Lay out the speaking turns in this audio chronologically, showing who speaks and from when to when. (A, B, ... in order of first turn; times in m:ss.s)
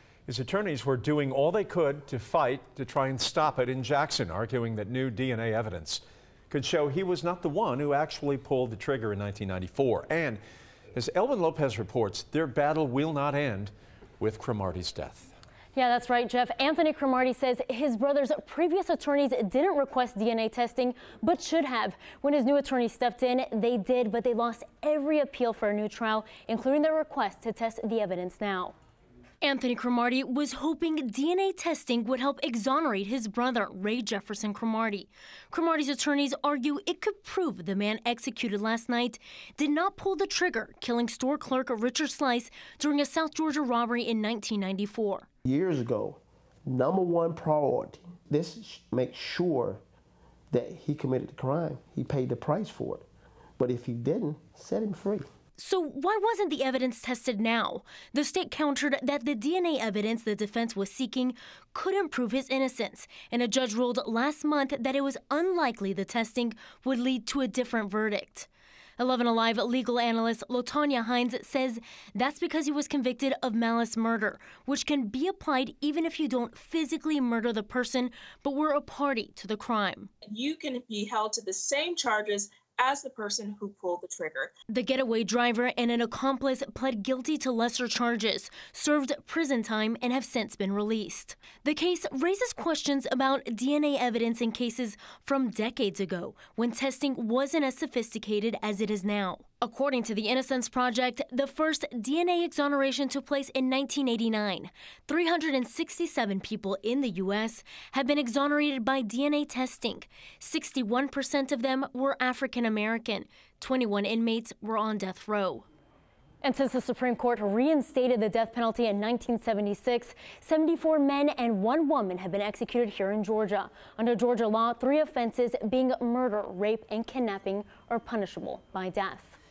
0:00.3-0:10.4 A
0:10.9-0:15.3 A
0:15.7-0:28.7 B
0:29.4-0:45.3 B
0:45.4-0:49.8 C
0:50.5-0:53.0 C
0:53.6-0:55.3 C
0:55.6-1:20.1 B
1:20.2-1:24.5 D
1:24.7-1:55.6 B
1:56.4-2:09.4 B